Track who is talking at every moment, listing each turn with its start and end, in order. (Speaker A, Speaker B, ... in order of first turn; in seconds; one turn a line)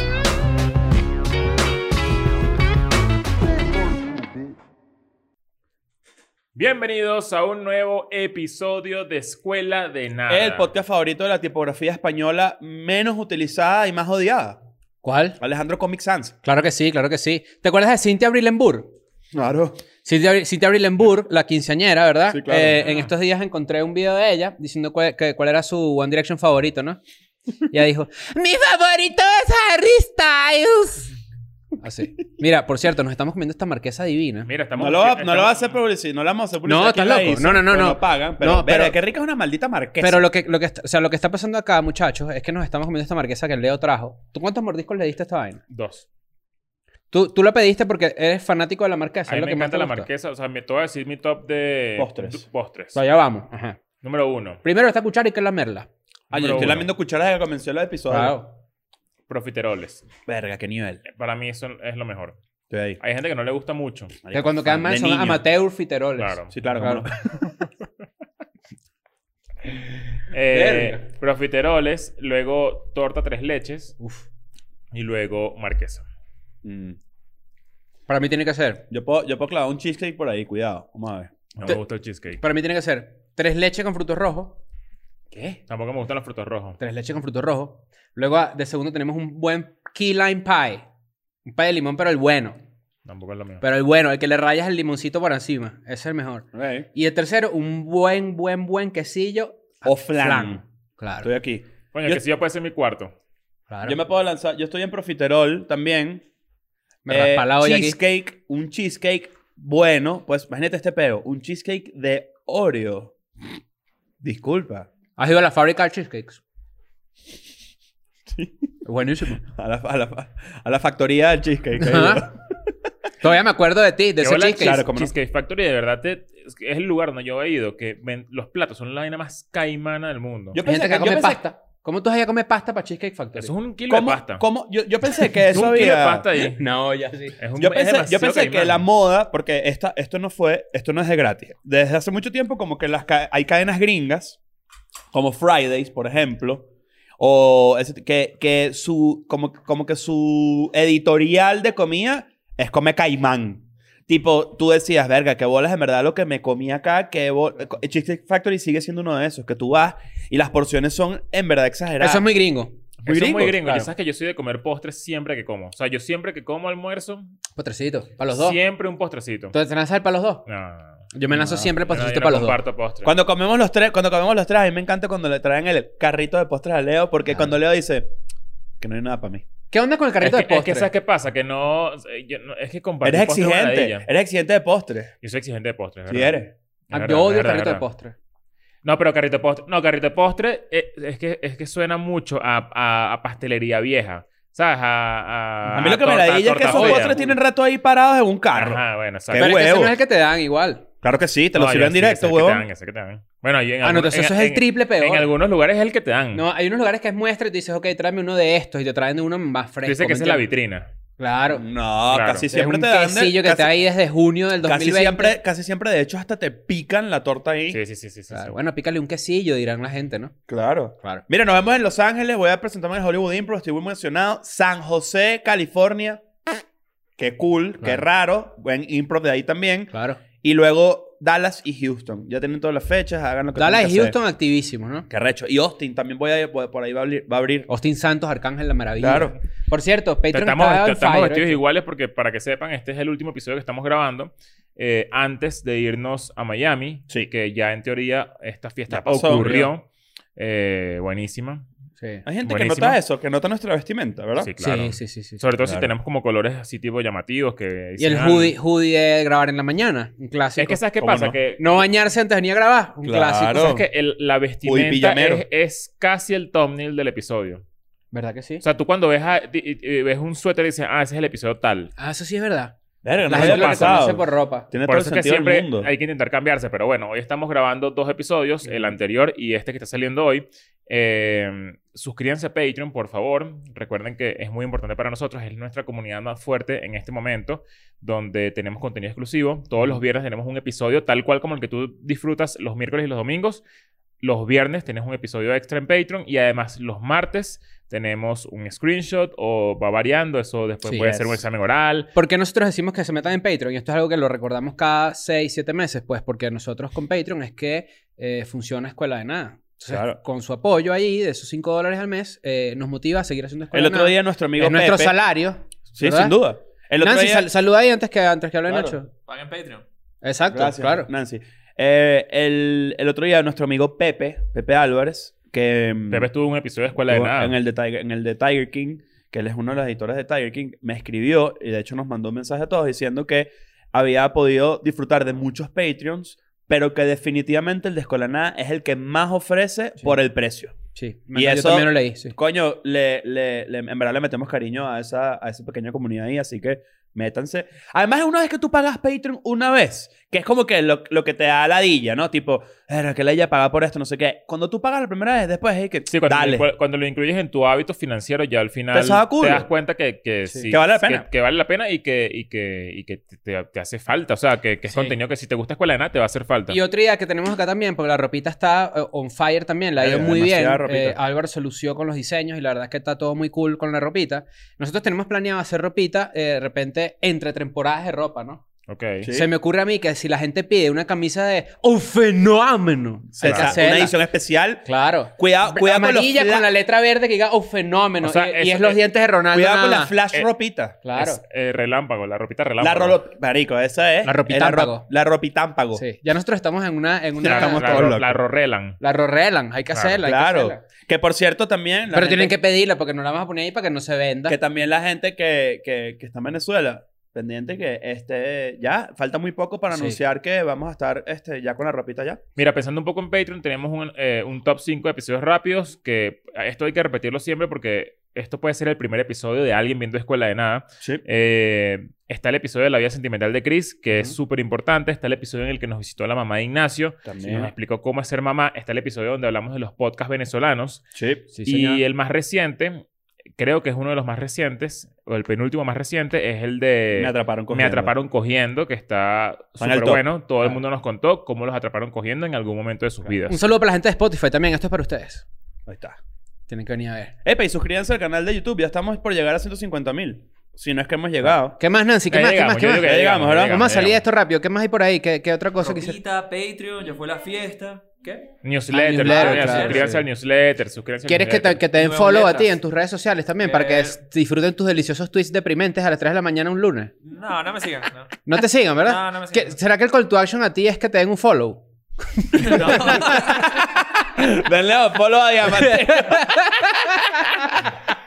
Speaker A: 6.5-10.7
Speaker B: 10.3-14.6
Speaker C: 15.0-15.4
Speaker B: 15.4-16.3
Speaker C: 16.4-18.9
Speaker B: 19.3-19.8
Speaker C: 20.1-27.0
Speaker B: 22.3-22.8
Speaker C: 27.7-31.1
Speaker C: 31.8-34.5
Speaker A: 34.5-35.7
Speaker B: 34.8-40.3
Speaker C: 36.6-39.0
Speaker C: 40.0-45.6
Speaker A: 45.7-46.0
Speaker C: 47.1-50.1
Speaker A: 49.3-53.0
Speaker B: 52.0-52.5
Speaker C: 53.0-53.8
Speaker A: 54.0-54.6
Speaker C: 54.6-55.9
Speaker A: 56.3-56.9
Speaker B: 56.3-58.4
Speaker C: 58.1-58.5
Speaker A: 59.3-60.0
Speaker B: 60.3-61.0
Speaker A: 61.1-62.4
Speaker B: 62.7-63.0
Speaker A: 63.0-64.2
Speaker B: 64.2-65.4
Speaker C: 64.3-67.0
Speaker A: 66.2-66.5
Speaker B: 66.5-67.5
Speaker A: 70.3-74.0
Speaker B: 70.5-70.9
Speaker C: 74.0-74.2
Speaker A: 74.9-76.0
Speaker B: 76.6-77.0
Speaker C: 78.1-78.8
Speaker B: 78.9-81.3
Speaker A: 81.5-82.4
Speaker C: 82.4-84.6
Speaker C: 85.3-85.6
Speaker A: 85.7-86.8
Speaker C: 86.8-90.8
Speaker C: 91.4-92.6
Speaker A: 93.0-93.6
Speaker C: 93.6-101.3
Speaker B: 96.5-96.9
Speaker B: 99.8-100.6
Speaker B: 101.2-102.2
Speaker A: 101.9-103.1
Speaker C: 103.7-104.0
Speaker B: 103.8-106.2
Speaker C: 107.0-108.0
Speaker B: 107.1-113.1
Speaker B: 114.2-114.9
Speaker C: 115.2-116.4
Speaker B: 118.3-118.7
Speaker C: 118.8-119.4
Speaker B: 119.4-122.4
Speaker C: 121.8-122.2
Speaker C: 123.2-124.8
Speaker A: 124.2-130.6
Speaker B: 124.6-125.1
Speaker B: 130.5-131.4
Speaker C: 130.6-133.5
Speaker A: 133.4-134.4
Speaker B: 133.9-136.5
Speaker A: 135.5-136.6
Speaker C: 136.3-137.4
Speaker A: 137.4-138.8
Speaker B: 137.6-144.4
Speaker B: 145.1-146.7
Speaker B: 147.2-162.3
Speaker C: 162.0-162.8
Speaker A: 163.0-167.3
Speaker B: 163.1-163.7
Speaker C: 167.6-168.6
Speaker A: 168.2-169.5
Speaker C: 169.5-170.4
Speaker A: 170.4-171.1
Speaker C: 171.1-172.6
Speaker B: 171.3-171.7
Speaker A: 171.8-173.1
Speaker B: 173.0-178.1
Speaker B: 178.8-179.4
Speaker C: 179.7-180.9
Speaker A: 180.2-184.1
Speaker B: 183.0-185.1
Speaker A: 185.2-186.4
Speaker B: 186.1-186.5
Speaker A: 186.9-187.8
Speaker C: 186.9-188.1
Speaker A: 188.8-197.2
Speaker B: 195.6-199.9
Speaker C: 196.7-197.3
Speaker A: 198.5-199.5
Speaker C: 199.4-200.8
Speaker B: 201.0-202.7
Speaker A: 201.5-206.4
Speaker C: 203.8-205.3
Speaker C: 206.3-210.4
Speaker A: 209.8-210.9
Speaker C: 211.2-211.6
Speaker B: 211.5-213.7
Speaker A: 212.1-212.5
Speaker C: 212.5-215.3
Speaker B: 214.6-217.8
Speaker A: 217.7-218.5
Speaker C: 218.3-220.3
Speaker B: 220.5-226.2
Speaker B: 227.2-234.2
Speaker C: 229.9-230.2
Speaker C: 233.6-235.1
Speaker B: 235.1-237.7
Speaker C: 237.7-241.6
Speaker B: 239.0-239.3
Speaker A: 240.3-249.8
Speaker B: 248.9-249.7
Speaker A: 250.4-251.7
Speaker C: 252.0-252.2
Speaker B: 252.2-254.5
Speaker A: 252.4-253.0
Speaker A: 254.3-258.6
Speaker C: 254.6-255.4
Speaker B: 255.6-255.9
Speaker C: 258.0-260.8
Speaker A: 260.6-261.8
Speaker B: 261.0-261.4
Speaker C: 261.6-263.7
Speaker B: 263.0-263.9
Speaker A: 263.5-267.6
Speaker B: 264.6-265.4
Speaker C: 268.1-268.6
Speaker A: 268.6-271.9
Speaker C: 272.0-274.7
Speaker B: 273.0-275.9
Speaker A: 273.3-274.1
Speaker A: 274.9-293.6
Speaker C: 278.7-278.9
Speaker A: 294.2-302.1
Speaker B: 301.0-301.4
Speaker C: 302.1-316.4
Speaker B: 309.9-310.2
Speaker B: 313.7-315.1
Speaker B: 316.0-317.5
Speaker C: 317.0-319.1
Speaker B: 318.7-319.0
Speaker D: 319.1-319.8
Speaker C: 320.2-321.1
Speaker B: 320.5-326.3
Speaker A: 326.1-327.6
Speaker B: 327.1-340.7
Speaker C: 340.9-342.4
Speaker B: 341.3-356.7
Speaker A: 356.1-366.8
Speaker B: 358.9-359.7
Speaker C: 360.5-360.7
Speaker B: 360.7-361.2
Speaker C: 364.9-365.1
Speaker C: 366.7-378.6
Speaker B: 370.0-371.2
Speaker A: 378.9-379.3
Speaker B: 379.2-379.5
Speaker C: 379.3-384.2
Speaker A: 383.4-383.8
Speaker B: 383.4-386.7
Speaker C: 384.8-390.1
Speaker A: 388.2-389.0
Speaker B: 389.5-391.0
Speaker C: 391.0-391.4
Speaker A: 391.1-393.2
Speaker B: 392.8-396.0
Speaker C: 394.2-395.1
Speaker C: 395.9-398.2
Speaker B: 397.4-398.4
Speaker A: 397.4-399.0
Speaker C: 399.0-400.8
Speaker A: 399.9-400.2
Speaker B: 400.2-402.6
Speaker C: 402.1-404.6
Speaker B: 404.5-412.4
Speaker C: 409.9-410.2
Speaker A: 412.6-431.1
Speaker B: 427.2-427.7
Speaker B: 431.1-431.4
Speaker C: 431.5-432.0
Speaker A: 431.6-433.1
Speaker A: 433.6-443.6
Speaker B: 437.1-438.1
Speaker B: 439.8-440.2
Speaker C: 443.4-445.4
Speaker B: 445.9-446.2
Speaker C: 446.7-447.3
Speaker B: 447.4-451.8
Speaker C: 451.4-456.2
Speaker A: 452.3-454.2
Speaker B: 453.0-453.9
Speaker D: 455.8-458.5
Speaker A: 458.6-461.8
Speaker C: 458.9-460.2
Speaker D: 459.2-460.1
Speaker C: 461.2-467.1
Speaker D: 461.9-462.8
Speaker D: 463.6-464.2
Speaker D: 467.2-468.4
Speaker C: 468.5-471.8
Speaker D: 468.9-469.8
Speaker C: 472.4-473.4
Speaker D: 472.6-473.7
Speaker B: 473.3-477.9
Speaker C: 475.7-477.2